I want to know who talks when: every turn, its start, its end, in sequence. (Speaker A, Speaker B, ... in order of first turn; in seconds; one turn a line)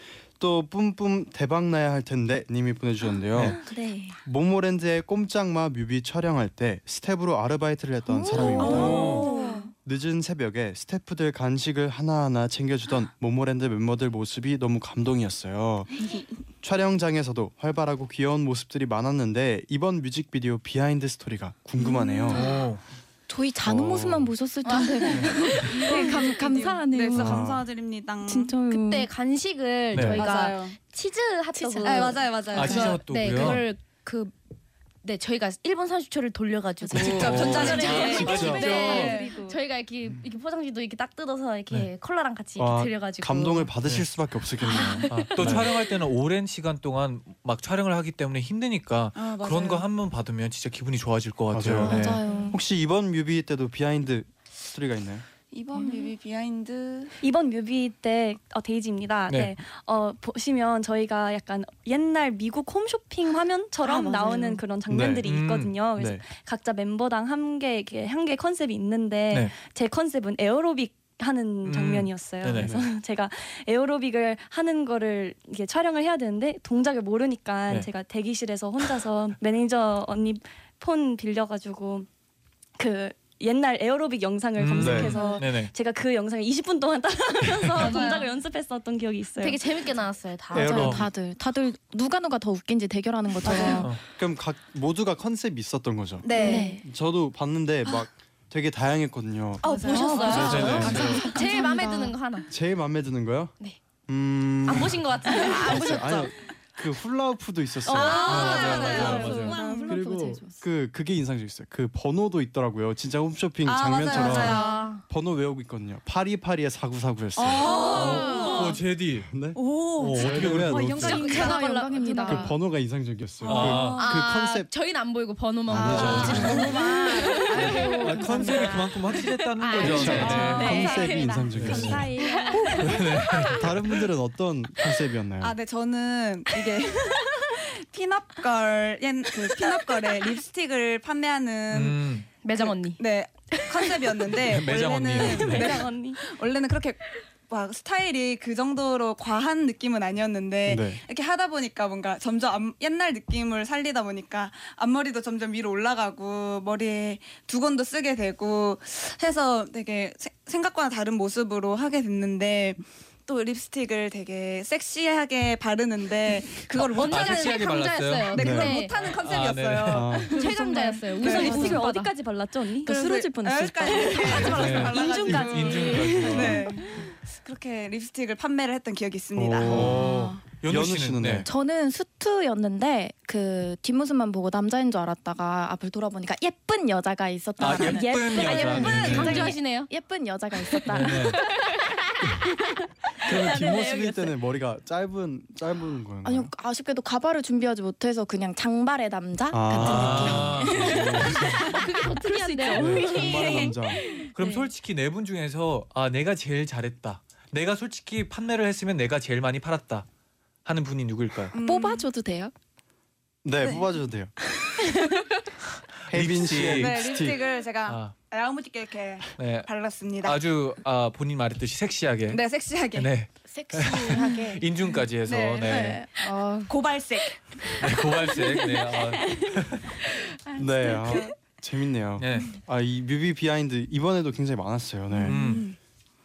Speaker A: 0.4-3.6
Speaker A: 4.2-9.1
Speaker B: 8.1-9.6
Speaker C: 8.3-9.7
Speaker D: 8.6-9.3
Speaker E: 8.7-9.3
Speaker A: 9.8-15.9
Speaker A: 16.6-22.4
Speaker B: 21.8-22.6
Speaker E: 22.3-22.8
Speaker B: 23.3-27.6
Speaker A: 23.6-24.3
Speaker D: 24.6-26.3
Speaker C: 25.1-28.6
Speaker A: 27.1-27.6
Speaker B: 28.2-29.1
Speaker D: 28.7-34.3
Speaker E: 29.9-30.2
Speaker C: 30.1-30.8
Speaker B: 31.5-32.2
Speaker C: 31.8-33.0
Speaker E: 32.5-33.6
Speaker D: 35.0-43.7
Speaker B: 36.9-37.9
Speaker C: 36.9-39.5
Speaker A: 37.0-38.8
Speaker E: 37.0-39.1
Speaker A: 42.6-45.7
Speaker D: 44.6-45.7
Speaker B: 44.7-45.1
Speaker E: 45.1-52.2
Speaker C: 49.1-49.9
Speaker A: 51.5-55.2
Speaker B: 51.8-52.6
Speaker C: 55.5-57.2
Speaker F: 57.2-82.1
Speaker E: 59.3-59.5
Speaker B: 63.8-64.6
Speaker A: 64.9-65.2
Speaker E: 65.2-65.8
Speaker A: 66.0-66.2
Speaker E: 71.6-72.7
Speaker A: 72.5-72.8
Speaker F: 82.8-89.7
Speaker E: 84.6-85.7
Speaker A: 84.8-85.2
Speaker C: 85.1-85.4
Speaker E: 87.5-87.9
Speaker C: 87.8-88.3
Speaker D: 89.4-91.0
Speaker B: 90.5-93.9
Speaker A: 90.5-91.0
Speaker E: 90.7-91.0
Speaker C: 93.5-93.8
Speaker A: 94.1-99.6
Speaker C: 96.2-96.7
Speaker D: 96.3-96.7
Speaker B: 96.4-96.8
Speaker C: 99.6-101.6
Speaker D: 99.6-102.5
Speaker B: 99.9-102.1
Speaker A: 100.2-101.2
Speaker E: 100.3-101.2
Speaker A: 102.5-103.5
Speaker A: 104.1-117.7
Speaker D: 104.6-106.3
Speaker B: 105.6-105.9
Speaker D: 107.9-109.6
Speaker C: 107.9-110.0
Speaker E: 108.3-109.6
Speaker B: 108.3-110.5
Speaker C: 113.6-114.8
Speaker D: 114.1-115.0
Speaker C: 117.4-118.8
Speaker B: 117.6-118.7
Speaker D: 117.6-118.6
Speaker E: 117.9-119.3
Speaker A: 119.3-119.6
Speaker C: 119.5-121.6
Speaker E: 120.0-121.2
Speaker A: 120.2-121.3
Speaker B: 121.0-122.5
Speaker D: 121.0-122.5
Speaker A: 122.2-124.7
Speaker E: 123.4-124.0
Speaker C: 123.5-123.9
Speaker D: 123.6-132.9
Speaker A: 125.7-126.6
Speaker C: 125.8-128.6
Speaker E: 125.9-126.6
Speaker B: 126.2-128.8
Speaker E: 127.5-130.9
Speaker A: 129.8-132.1
Speaker C: 130.2-131.3
Speaker B: 130.3-131.0
Speaker E: 131.5-132.1
Speaker C: 132.2-132.6
Speaker B: 132.4-132.7
Speaker E: 132.8-134.0
Speaker A: 133.5-135.6
Speaker C: 135.4-167.6
Speaker E: 141.7-142.3
Speaker D: 142.4-143.0
Speaker D: 143.5-144.0
Speaker E: 144.3-145.8
Speaker F: 145.3-146.2
Speaker A: 150.7-151.0
Speaker E: 166.8-170.1
Speaker D: 166.9-168.9
Speaker C: 168.3-171.8
Speaker A: 168.4-168.7
Speaker A: 169.9-170.4
Speaker D: 170.3-172.1
Speaker B: 170.4-171.8
Speaker F: 171.2-173.0
Speaker B: 172.8-176.5
Speaker C: 172.9-179.9
Speaker E: 174.3-176.7
Speaker A: 179.3-180.1
Speaker E: 179.7-181.5
Speaker B: 179.7-180.4
Speaker A: 180.6-181.5
Speaker B: 181.4-191.7
Speaker E: 187.6-189.5
Speaker D: 187.8-189.9
Speaker F: 188.4-188.9
Speaker E: 190.9-191.4
Speaker A: 193.2-196.5
Speaker F: 193.5-194.1
Speaker B: 196.2-203.5
Speaker A: 199.5-201.4
Speaker E: 199.7-201.6
Speaker D: 201.6-204.3
Speaker A: 202.7-204.0
Speaker B: 204.2-204.6
Speaker E: 204.3-210.1
Speaker E: 210.6-211.5
Speaker C: 211.5-212.1
Speaker B: 211.6-212.5
Speaker A: 213.4-214.3
Speaker B: 214.6-215.2
Speaker E: 216.1-217.2
Speaker A: 216.1-217.4
Speaker C: 216.7-220.4
Speaker E: 217.8-218.1
Speaker E: 219.4-219.7
Speaker E: 220.2-226.0
Speaker C: 222.3-223.1
Speaker B: 223.5-224.7
Speaker C: 225.2-225.9
Speaker B: 225.6-226.7
Speaker C: 226.7-227.5
Speaker E: 227.8-229.9
Speaker A: 230.6-235.4
Speaker B: 230.8-231.2
Speaker E: 232.2-232.5
Speaker E: 235.3-235.7
Speaker C: 235.3-235.8